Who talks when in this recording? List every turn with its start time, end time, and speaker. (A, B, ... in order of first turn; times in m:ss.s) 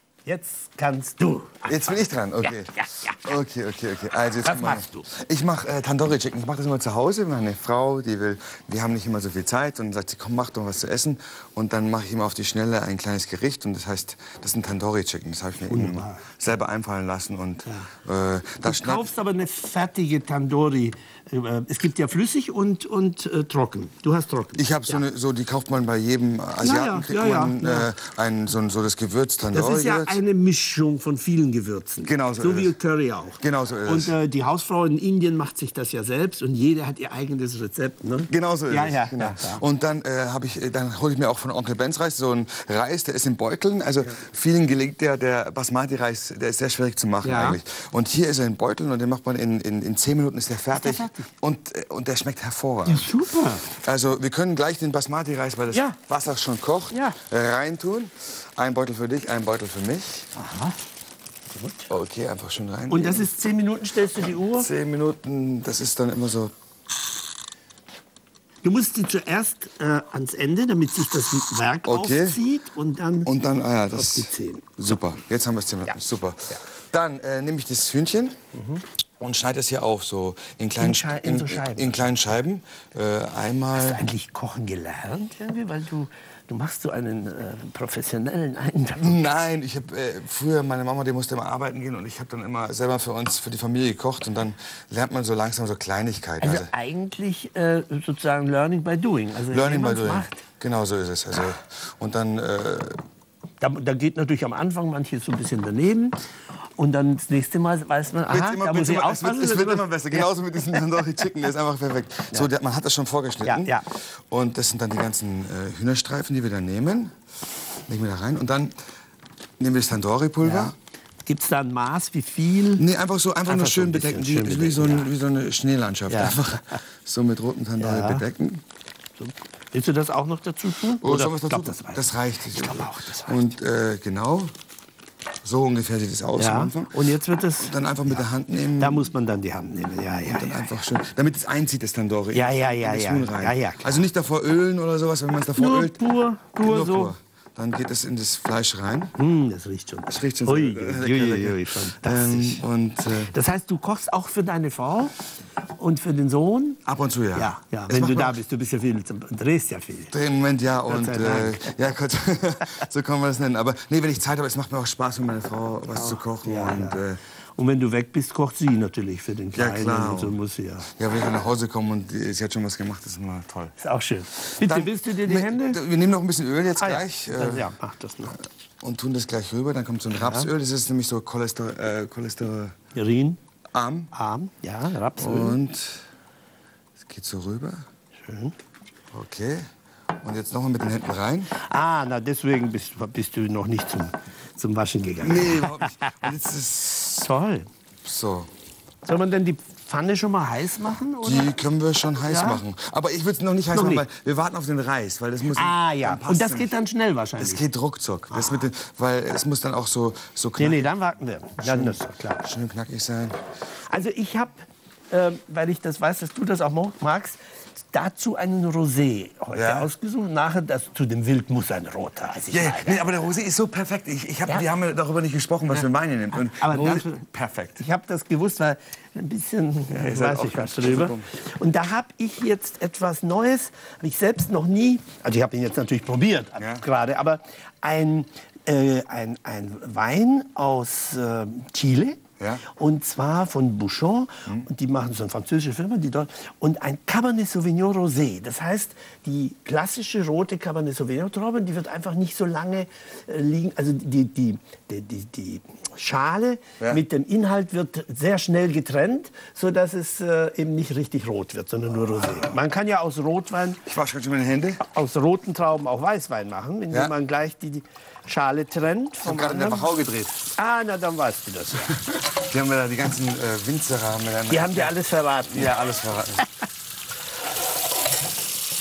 0:00.2-0:03.2 A
0:01.7-0:19.1 B
0:04.4-0:05.1 A
0:15.7-0:16.2 A
0:17.6-0:17.9 A
0:18.6-0:25.0 A
0:24.6-0:30.2 B
0:26.6-0:27.9 A
0:29.5-0:39.6 A
0:32.0-0:32.7 B
0:33.4-0:34.1 B
0:38.3-0:53.1 B
0:47.2-0:47.6 A
0:50.7-0:51.3 A
0:52.8-0:53.6 A
0:53.6-1:00.3 B
0:55.7-0:56.0 A
0:56.9-0:57.2 A
1:00.3-1:00.8 A
1:01.5-1:01.9 A
1:01.9-1:03.3 B
1:02.9-1:04.7 A
1:04.6-1:06.5 B
1:08.6-1:13.3 A
1:11.8-1:12.4 B
1:13.2-1:18.4 B
1:13.9-1:14.8 A
1:18.5-1:18.8 A
1:19.2-1:24.0 B
1:20.8-1:22.1 A
1:23.7-1:29.2 A
1:29.0-1:36.7 B
1:36.4-1:40.4 A
1:39.5-1:43.0 B
1:43.6-1:46.2 A
1:46.8-1:50.3 A
1:48.3-1:57.2 B
1:53.4-1:53.8 A
1:57.9-1:58.7 B
1:59.6-2:00.7 B
2:00.4-2:00.7 A
2:01.2-2:02.8 A
2:02.8-2:08.6 B
2:03.4-2:05.1 A
2:06.1-2:06.5 A
2:07.8-2:08.2 A
2:09.2-2:13.5 A
2:11.0-2:14.5 B
2:15.4-2:17.0 B
2:16.4-2:17.7 A
2:17.6-2:19.1 B
2:18.8-2:20.8 A
2:20.3-2:26.0 B
2:22.3-2:24.0 A
2:25.5-2:27.1 A
2:26.6-2:29.2 B
2:29.2-2:32.6 A
2:30.1-2:33.3 B
2:33.2-2:35.2 A
2:35.8-2:36.8 A
2:36.8-2:38.4 B
2:37.3-2:40.1 A
2:40.1-2:47.2 B
2:40.8-2:41.8 A
2:45.9-2:47.0 A
2:47.6-2:50.9 A
2:49.5-2:50.4 B
2:50.9-2:53.7 B
2:53.8-2:55.8 A
2:54.5-2:57.7 B
2:56.8-2:58.4 A
2:58.8-3:02.8 B
3:00.1-3:00.5 A
3:02.9-3:03.4 A
3:03.7-3:04.1 B
3:04.1-3:05.6 A
3:05.2-3:06.0 B
3:07.0-3:07.8 B
3:08.2-3:08.5 A
3:09.1-3:09.7 B
3:10.2-3:11.5 B
3:11.5-3:16.2 A
3:15.2-3:17.3 B
3:17.1-3:17.7 A
3:18.0-3:18.5 B
3:19.0-3:21.6 A
3:21.2-3:26.7 B
3:22.2-3:22.6 A
3:23.7-3:24.0 A
3:25.5-3:27.6 A
3:27.4-3:30.8 B
3:30.6-3:32.4 A
3:31.6-3:33.4 B
3:33.9-3:43.0 A
3:39.5-3:39.9 B
3:42.5-3:47.8 B
3:46.3-3:47.2 A
3:47.8-4:23.8 A
3:49.9-3:51.3 B
3:56.6-3:56.8 B
4:23.8-4:24.8 B
4:24.8-4:29.9 A
4:29.2-4:30.5 B
4:30.5-4:32.0 A
4:32.0-4:35.0 B
4:34.5-4:35.7 A
4:35.5-4:36.4 B